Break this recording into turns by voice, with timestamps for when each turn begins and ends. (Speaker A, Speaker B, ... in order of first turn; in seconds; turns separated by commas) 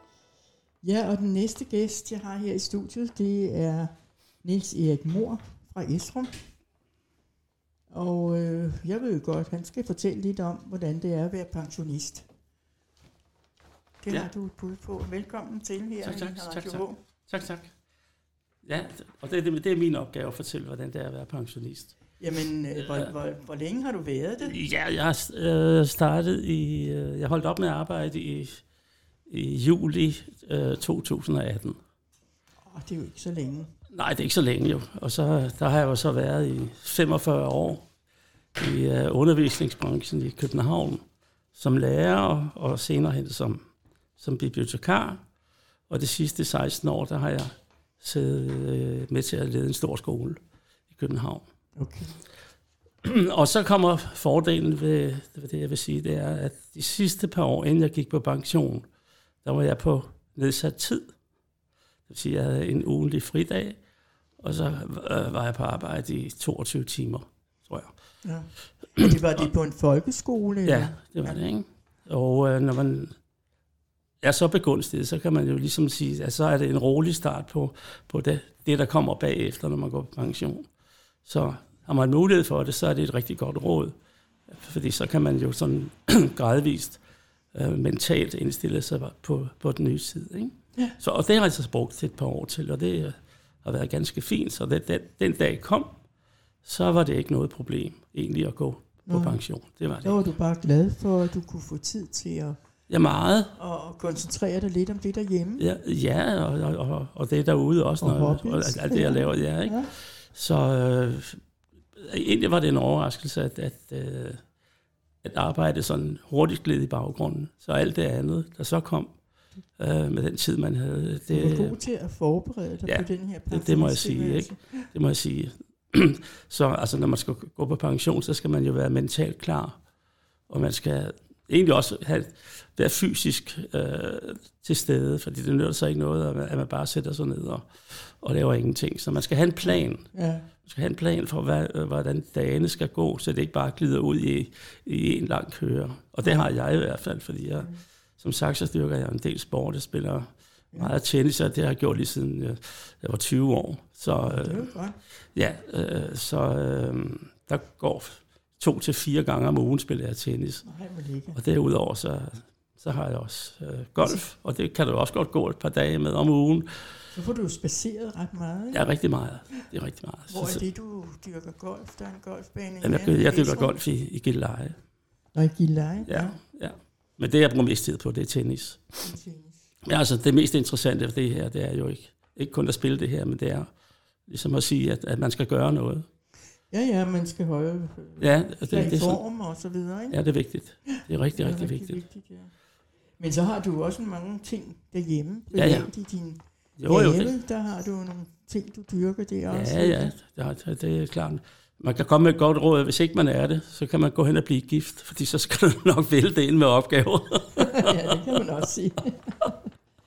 Speaker A: 0.8-3.9, Speaker A: 4.4-6.3, Speaker A: 7.9-12.2, Speaker A: 14.0-17.0, Speaker B: 16.0-17.7, Speaker B: 18.6-22.0, Speaker A: 22.2-24.6, Speaker B: 22.8-23.1, Speaker B: 24.4-28.6, Speaker B: 29.3-31.8, Speaker A: 32.7-33.7, Speaker B: 33.9-37.9, Speaker B: 38.5-41.0, Speaker B: 41.5-43.6, Speaker B: 44.2-45.2, Speaker B: 45.9-50.4, Speaker B: 50.9-51.4, Speaker A: 51.8-52.1, Speaker B: 53.0-58.8, Speaker B: 59.4-61.1, Speaker B: 62.1-63.8, Speaker B: 64.4-67.9, Speaker A: 68.2-71.3, Speaker B: 70.6-73.1, Speaker B: 74.2-80.7, Speaker B: 81.2-83.9, Speaker B: 84.5-87.0, Speaker B: 87.5-95.9, Speaker B: 96.6-100.2, Speaker A: 99.1-99.4, Speaker A: 100.0-102.6, Speaker B: 102.9-103.5, Speaker A: 103.5-105.7, Speaker B: 105.6-111.4, Speaker A: 108.0-109.9, Speaker B: 112.0-114.4, Speaker B: 115.2-119.1, Speaker B: 119.8-121.8, Speaker A: 121.3-124.9, Speaker B: 122.8-129.8, Speaker B: 130.5-140.1, Speaker A: 140.1-140.5, Speaker B: 140.6-154.7, Speaker A: 154.2-155.0, Speaker B: 155.3-160.6, Speaker A: 160.6-161.4, Speaker B: 161.3-166.8, Speaker A: 167.1-168.9, Speaker B: 168.7-170.6, Speaker A: 170.3-173.7, Speaker B: 172.8-174.8, Speaker A: 175.3-176.4, Speaker B: 176.1-179.0, Speaker A: 179.0-179.7, Speaker B: 179.8-183.7, Speaker B: 184.3-186.1, Speaker A: 186.7-190.2, Speaker B: 188.2-189.2, Speaker B: 190.1-192.0, Speaker A: 190.9-192.5, Speaker A: 193.2-200.1, Speaker B: 195.5-195.9, Speaker B: 196.8-197.3, Speaker B: 199.5-208.4, Speaker A: 207.6-209.6